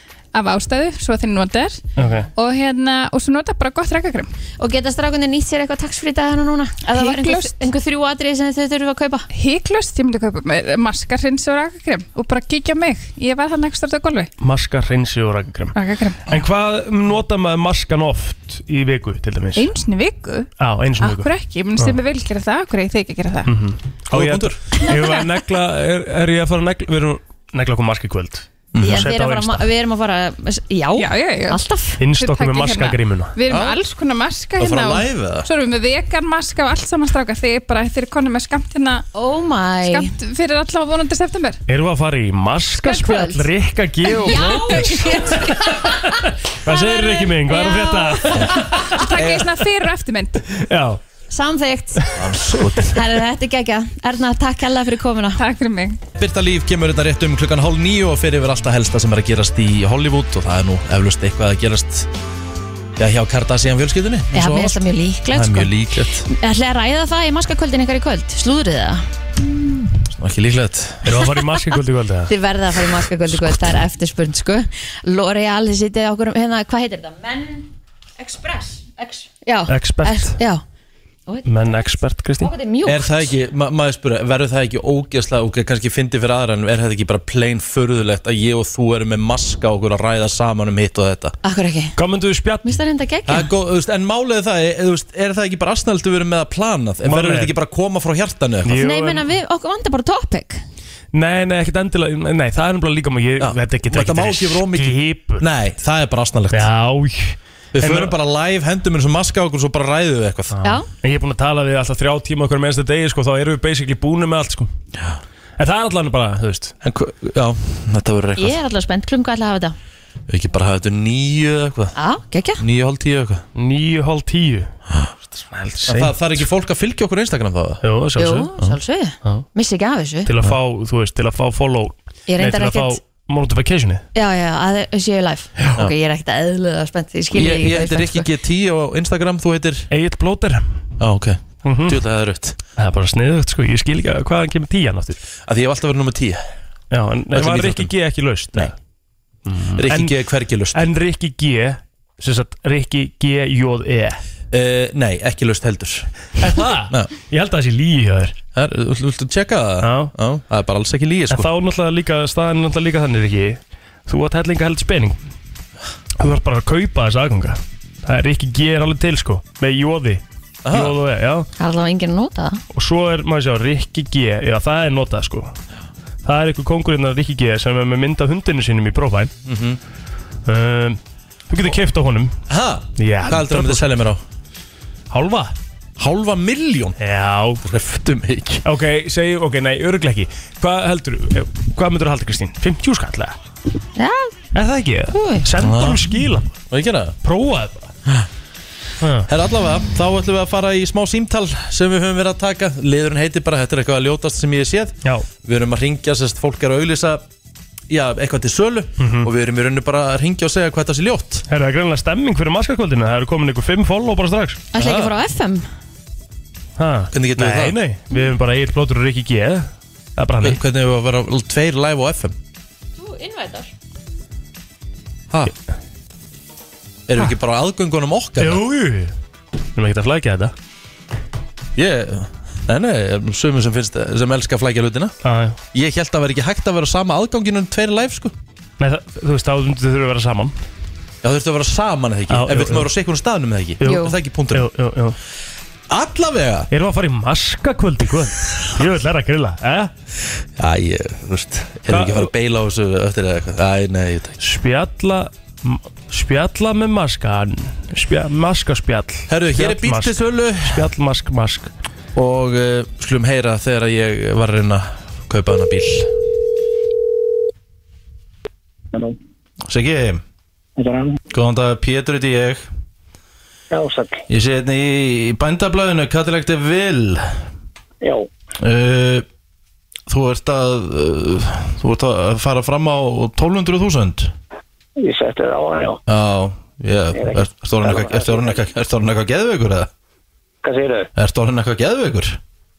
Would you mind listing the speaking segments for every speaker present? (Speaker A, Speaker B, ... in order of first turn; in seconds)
Speaker A: 0.3-4.3, 6.9-7.7, 9.3-14.3, 15.7-16.3, 19.6-23.5, 31.0-31.6, 32.2-39.0, 39.8-41.6, 44.1-45.7, 46.6-50.4, 55.4-56.0
Speaker B: 2.0-2.3, 14.4-15.7, 16.3-19.7, 20.6-22.0, 23.4-29.6, 32.0-33.3, 41.7-49.0, 50.5-51.0, 71.0-72.3, 79.7-80.4, 81.5-82.5, 92.0-92.8, 97.0-97.5, 98.6-99.2, 101.1-105.4, 106.5-108.1, 110.5-114.7, 115.6-116.7, 123.5-124.7, 125.5-126.4, 127.8-128.5, 130.2-134.0, 139.9-140.6, 141.6-142.0, 142.8-145.2, 146.9-148.7, 149.5-150.1, 150.7-154.2, 156.4-158.3, 159.8-160.1, 161.3-165.2, 166.2-171.5, 172.7-175.5, 176.2-179.3, 180.4-182.3, 183.0-183.9, 185.1-185.5, 187.0-187.6, 188.6-193.3, 194.5-196.5, 197.2-197.9, 199.0-199.3, 209.0-209.3, 211.5-214.6, 216.8-220.6, 228.4-229.1, 229.8-230.5, 235.2-235.6, 238.8-240.5, 242.3-242.9, 243.8-245.2, 246.7-249.9, 251.9-252.3, 254.4-261.7
Speaker C: 4.6-9.3, 28.8-32.0, 39.1-40.1, 42.8-43.5, 44.2-46.1, 51.3-52.1, 52.7-55.4, 64.3-65.7, 66.3-69.0, 72.3-80.6, 81.3-83.3, 91.4-91.9, 92.6-93.5, 98.8-100.6, 118.4-119.8, 122.0-122.6, 128.2-130.3, 132.3-133.0, 134.1-138.3, 171.6-172.6, 193.9-194.3, 195.1-195.4, 214.7-215.7, 223.0-223.7, 243.8-244.1
Speaker D: 24.1-24.6, 28.7-29.1, 33.5-33.8, 34.6-35.5, 49.1-49.5, 52.1-53.0, 56.1-62.1, 63.0-64.8, 65.3-66.3, 70.0-71.1, 82.8-91.3, 93.3-98.8, 103.4-106.7, 107.7-110.5, 116.8-118.6, 120.3-121.9, 122.6-123.4, 125.9-127.8, 137.3-139.9, 141.0-142.6, 145.4-146.4, 147.3-147.9, 149.7-150.8, 154.5-156.1, 158.5-161.5, 170.6-171.0, 179.4-179.8, 182.5-184.2, 186.0-187.0, 187.6-188.6, 195.6-196.1, 196.7-197.2, 199.3-207.2, 207.9-211.4, 214.8-215.1, 217.1-217.8, 220.4-222.3, 227.1-228.6, 231.8-235.1, 235.7-238.3, 241.2-244.7, 245.9-246.7, 250.6-254.4, 259.3-260.9, 262.1-266.1, 269.6-270.2, 271.3-272.6, 274.3-277.4, 278.6-279.2, 280.1-284.3, 286.1-289.9, 291.1-292.4
Speaker E: 270.8-271.1, 273.7-274.2, 278.0-278.3, 285.0-286.0, 287.1-288.6, 290.6-291.1